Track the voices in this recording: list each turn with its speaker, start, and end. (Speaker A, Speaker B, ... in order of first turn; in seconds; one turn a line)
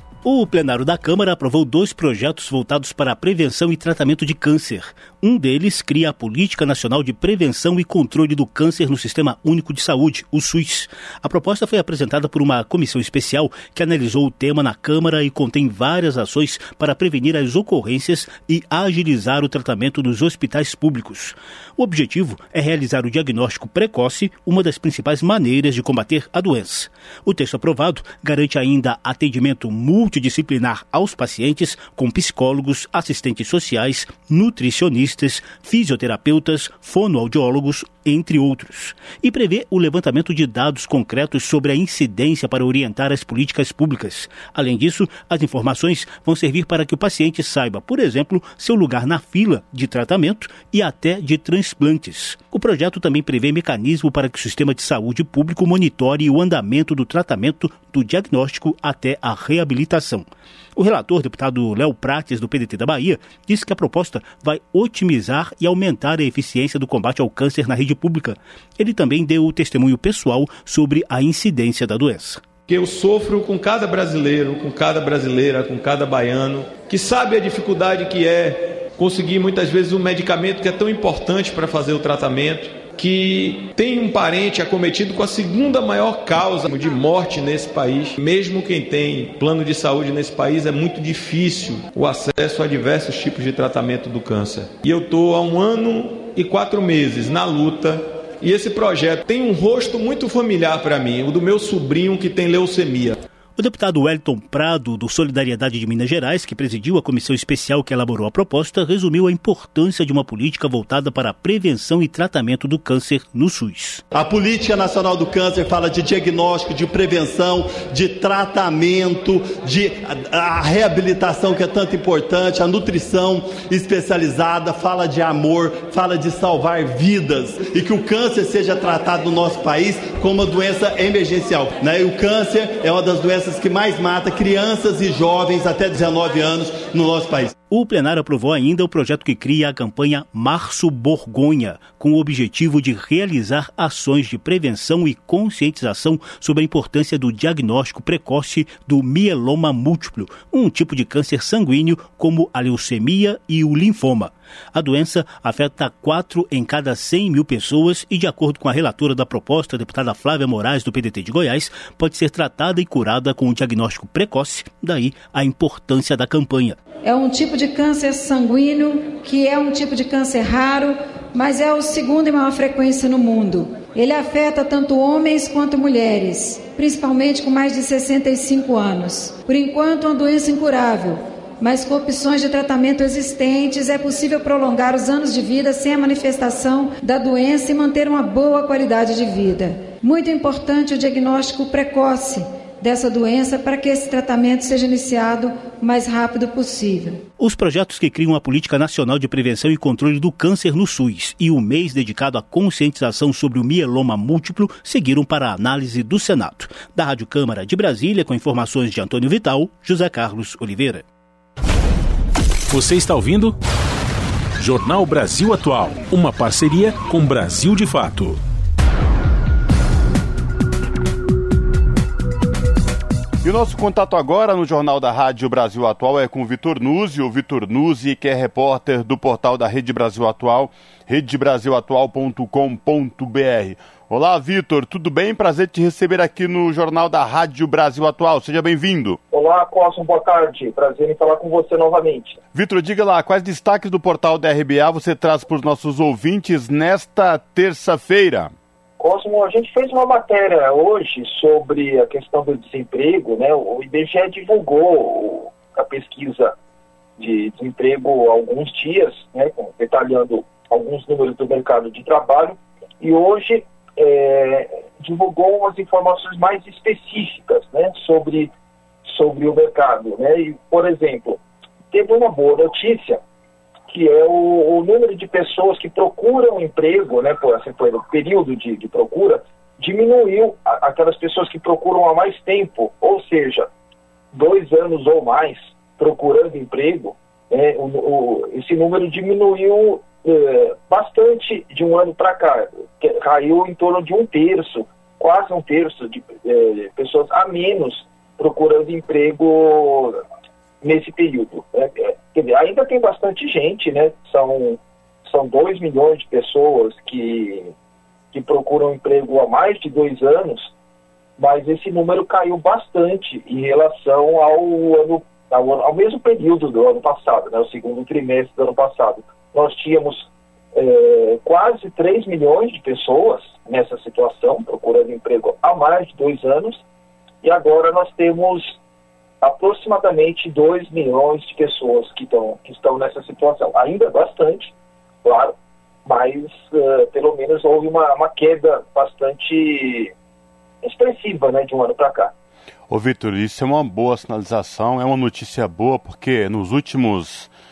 Speaker A: 0.2-72.4
Speaker B: 72.7-103.2
Speaker A: 103.6-114.0
Speaker C: 114.1-137.5
Speaker A: 137.7-166.8
Speaker D: 167.0-197.2
Speaker A: 197.4-211.0
Speaker E: 212.7-213.6
Speaker E: 214.6-218.4
Speaker F: 223.4-239.2
Speaker G: 239.3-242.4
Speaker F: 242.5-248.5
Speaker G: 249.0-256.5
Speaker G: 257.2-268.5
Speaker G: 269.0-271.4
Speaker G: 271.9-273.2
Speaker G: 273.9-283.7
Speaker G: 284.3-300.2
Speaker G: 300.8-307.7
Speaker G: 308.3-310.7
Speaker G: 311.4-326.8
Speaker G: 327.4-328.8
Speaker G: 329.4-334.7
Speaker G: 335.2-335.5
Speaker G: 336.1-340.1
Speaker G: 340.8-342.3
Speaker F: 342.9-347.5